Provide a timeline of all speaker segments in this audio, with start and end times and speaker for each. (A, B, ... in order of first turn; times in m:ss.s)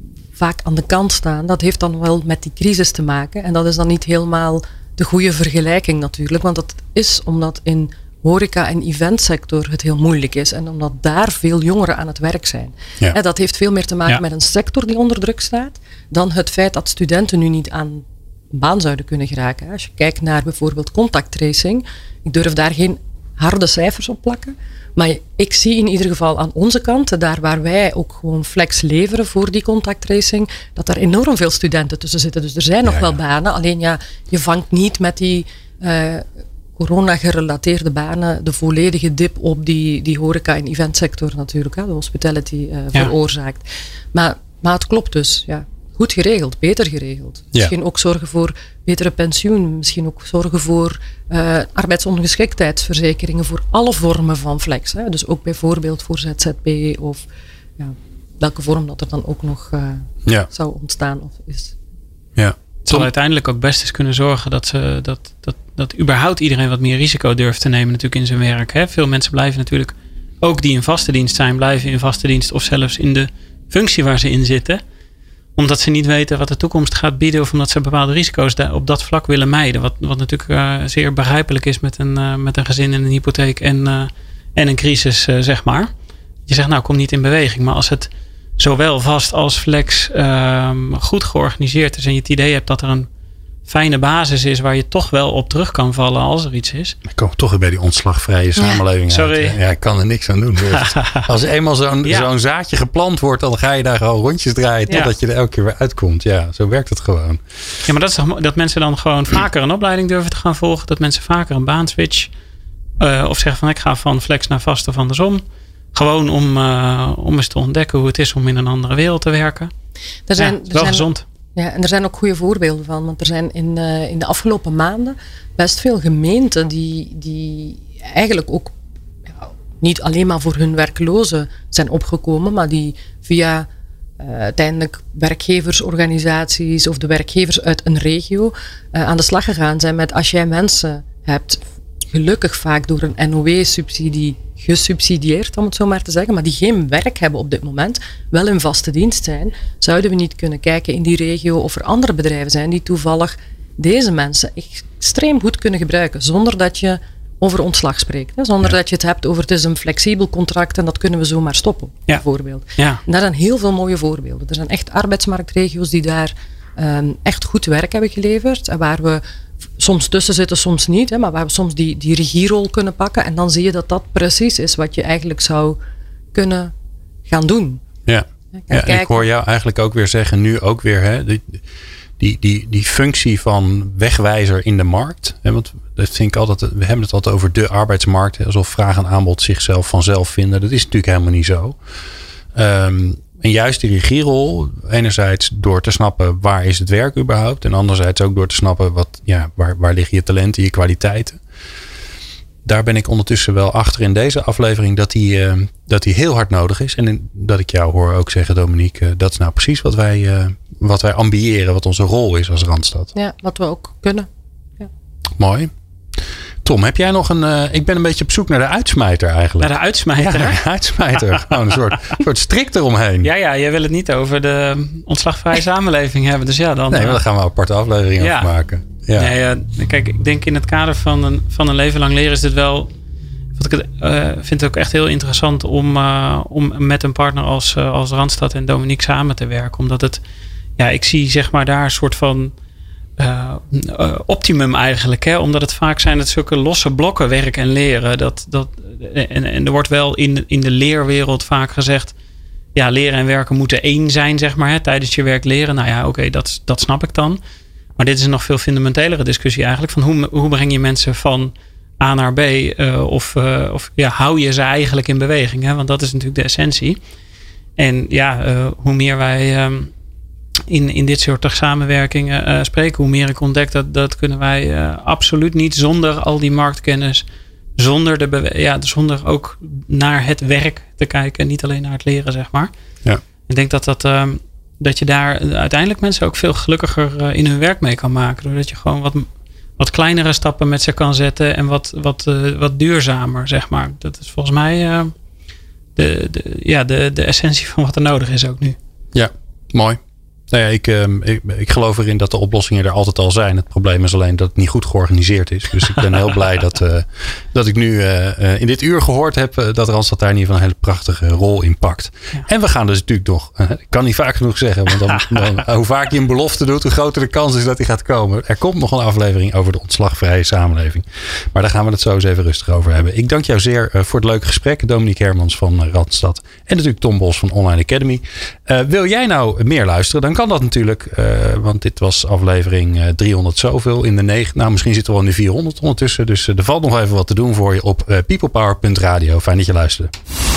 0:00.4-0:57.3 A
0:32.9-0:33.2 B
0:57.8-1:01.8 A
1:02.4-1:03.1 B
1:02.8-1:14.8 C
1:15.6-1:25.9 C
1:26.5-1:33.1 C
1:33.7-1:37.0 C
1:37.1-1:47.4 B
1:39.1-1:39.6 C
1:40.7-1:41.3 C
1:47.9-1:52.3 C
1:53.0-1:55.4 C
1:55.9-1:59.7 C
2:00.3-2:08.7 A
2:00.4-2:01.2 C
2:09.8-2:13.7 A
2:14.2-2:49.2 A
2:49.8-2:55.8 A
2:56.3-2:56.7 A
2:57.3-2:57.8 A
2:58.1-3:01.6 B
2:58.5-2:59.3 A
3:02.2-3:11.8 B
3:12.6-3:21.4 B
3:22.6-3:33.1 B
3:33.2-3:34.3 A
3:35.4-3:35.7 B
3:36.6-3:43.3 B
3:39.6-3:40.6 C
3:43.2-3:47.2 C
3:46.9-3:49.3 B
3:48.2-3:48.5 C
3:49.2-3:52.9 C
3:53.6-4:00.2 C
4:00.8-4:02.5 C
4:03.2-4:12.1 C
4:12.8-4:17.4 C
4:18.0-4:27.0 C
4:27.8-4:29.9 C
4:30.7-4:37.3 C
4:37.8-4:42.7 C
4:43.5-4:55.1 C
4:56.0-4:58.8 C
4:59.1-5:00.0 B
5:00.5-5:40.1 B